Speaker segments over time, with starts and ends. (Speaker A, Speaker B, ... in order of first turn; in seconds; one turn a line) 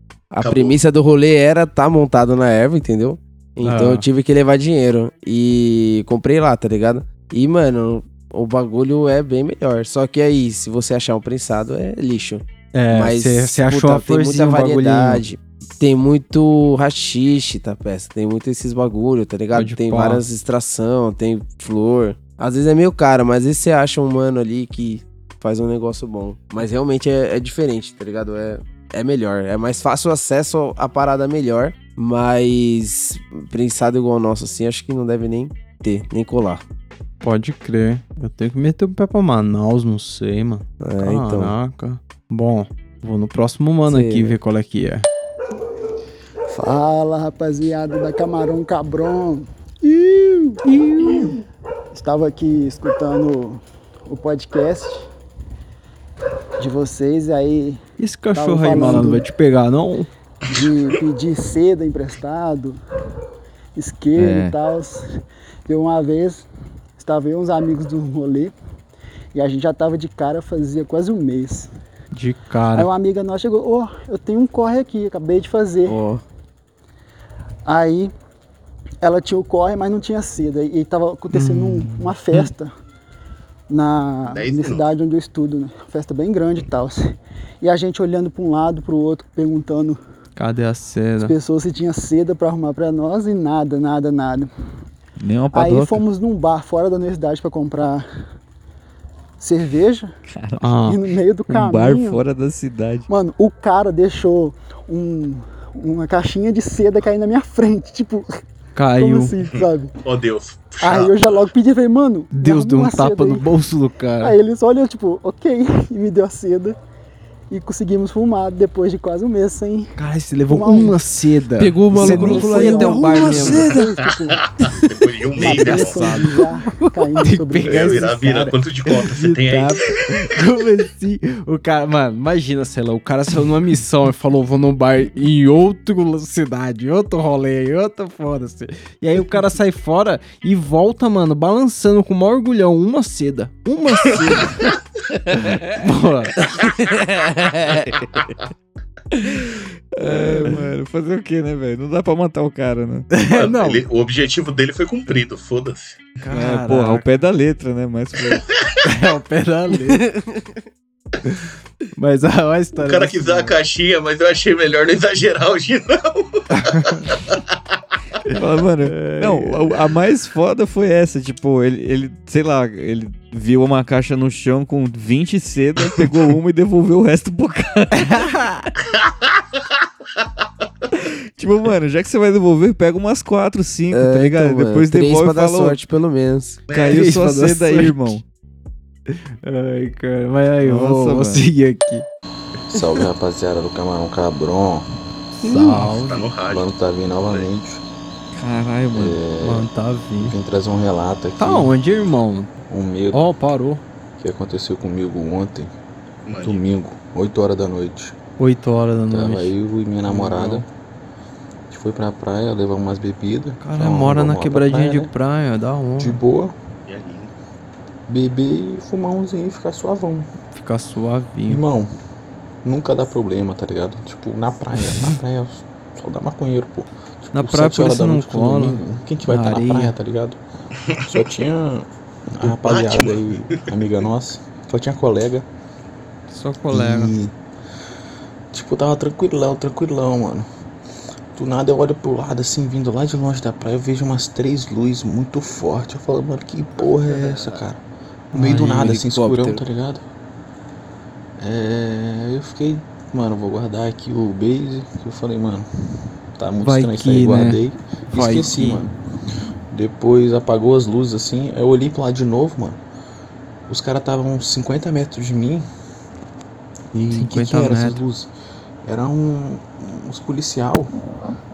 Speaker A: 0.3-36.6
Speaker B: 0.4-0.8
Speaker C: 3.6-4.0
Speaker C: 12.7-15.2
Speaker C: 19.5-20.2
Speaker C: 37.2-45.0
Speaker A: 40.8-41.5
Speaker A: 43.9-44.3
Speaker D: 46.5-51.4
Speaker C: 50.6-51.3
Speaker D: 51.9-55.1
Speaker D: 56.6-57.8
Speaker C: 58.0-60.1
Speaker D: 58.3-59.3
Speaker D: 60.5-62.8
Speaker D: 63.7-65.1
Speaker E: 64.1-64.5
Speaker D: 65.7-66.5
Speaker D: 67.0-68.5
Speaker D: 69.3-71.7
Speaker C: 72.1-72.9
Speaker D: 72.7-76.0
Speaker A: 75.9-76.2
Speaker D: 77.7-78.1
Speaker D: 79.0-82.7
Speaker C: 81.3-82.5
Speaker D: 83.7-87.1
Speaker B: 84.3-84.9
Speaker D: 87.6-90.0
Speaker C: 90.4-91.3
Speaker D: 91.2-94.5
Speaker E: 95.2-96.0
Speaker D: 95.5-98.0
Speaker D: 99.4-100.1
Speaker E: 100.3-100.8
Speaker C: 100.6-101.0
Speaker D: 100.8-102.2
Speaker E: 101.5-103.1
Speaker D: 103.1-108.3
Speaker C: 108.8-109.3
Speaker D: 108.9-109.9
Speaker B: 110.0-111.5
Speaker D: 110.8-113.5
Speaker C: 112.3-114.3
Speaker D: 114.2-116.8
Speaker D: 117.5-119.9
Speaker C: 120.0-123.7
Speaker D: 120.5-121.0
Speaker A: 121.6-123.8
Speaker D: 122.1-124.4
Speaker B: 123.8-126.2
Speaker C: 125.3-144.7
Speaker D: 125.4-128.2
Speaker B: 127.6-129.9
Speaker C: 145.4-146.3
Speaker E: 149.4-153.1
Speaker C: 153.1-153.8
Speaker B: 153.3-156.0
Speaker C: 156.2-157.1
Speaker E: 156.3-158.5
Speaker C: 158.8-160.0
Speaker C: 162.0-163.6
Speaker B: 162.8-167.4
Speaker C: 166.5-167.1
Speaker E: 168.3-178.2
Speaker C: 168.9-169.7
Speaker C: 178.0-178.7
Speaker E: 181.4-185.8
Speaker A: 183.9-186.6
Speaker B: 186.7-187.1
Speaker E: 186.7-188.2
Speaker C: 186.9-188.2
Speaker C: 189.1-192.0
Speaker E: 190.6-191.4
Speaker F: 192.7-194.8
Speaker C: 195.4-196.3
Speaker B: 195.5-196.7
Speaker F: 196.5-197.8
Speaker E: 198.3-199.2
Speaker F: 198.9-201.7
Speaker C: 199.4-200.3
Speaker C: 201.4-202.5
Speaker F: 202.7-203.2
Speaker C: 203.1-203.8
Speaker F: 204.2-205.7
Speaker B: 206.2-206.6
Speaker F: 206.4-208.1
Speaker C: 208.4-209.5
Speaker F: 209.1-210.7
Speaker C: 210.1-210.6
Speaker F: 211.7-215.1
Speaker C: 213.6-216.2
Speaker F: 216.0-216.5
Speaker B: 216.8-217.3
Speaker F: 218.1-220.3
Speaker C: 220.5-221.6
Speaker F: 221.5-221.9
Speaker F: 222.6-230.4
Speaker C: 227.3-229.9
Speaker F: 231.1-235.5
Speaker B: 232.4-234.0
Speaker C: 236.3-237.1
Speaker F: 236.7-237.3
Speaker F: 238.5-240.5
Speaker F: 241.3-247.8
Speaker C: 248.3-249.5
Speaker F: 248.3-250.0
Speaker F: 251.4-255.7
Speaker F: 256.4-258.9
Speaker C: 256.6-257.6
Speaker C: 258.1-258.9
Speaker F: 259.7-262.8
Speaker F: 263.7-265.6
Speaker F: 266.9-268.3
Speaker C: 267.1-268.0
Speaker F: 268.9-270.9